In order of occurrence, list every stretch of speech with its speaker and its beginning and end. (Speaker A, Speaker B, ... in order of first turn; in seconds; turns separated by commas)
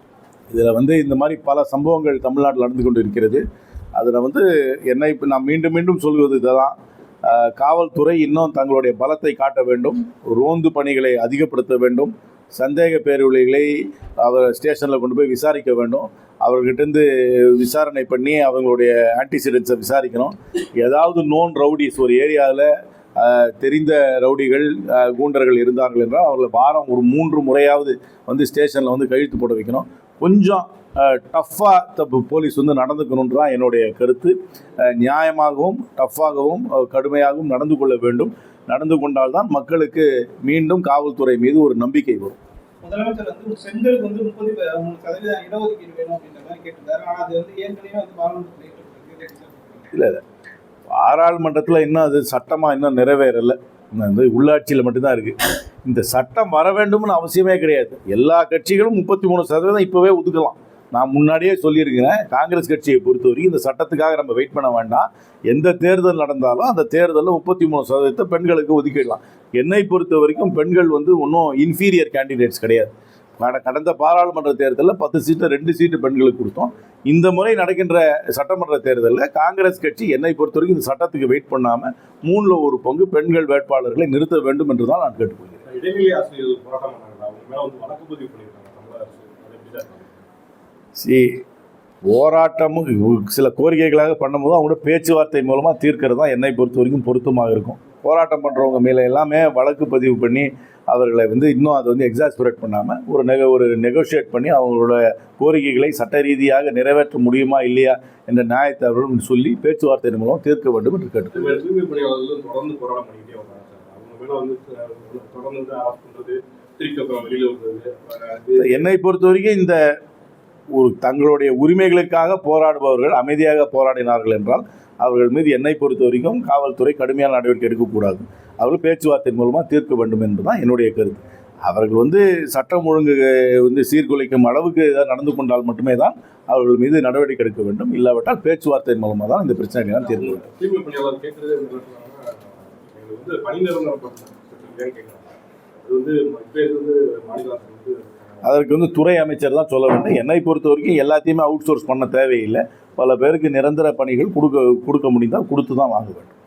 Speaker A: 0.5-3.4, Speaker A: 4.0-42.4, Speaker B: 42.8-49.9, Speaker A: 49.9-50.2, Speaker A: 50.9-85.6, Speaker C: 85.7-90.1, Speaker A: 91.0-91.4, Speaker A: 92.0-111.5, Speaker C: 111.3-118.9, Speaker A: 118.6-119.8, Speaker A: 120.7-140.4, Speaker C: 140.1-148.5, Speaker A: 148.4-156.3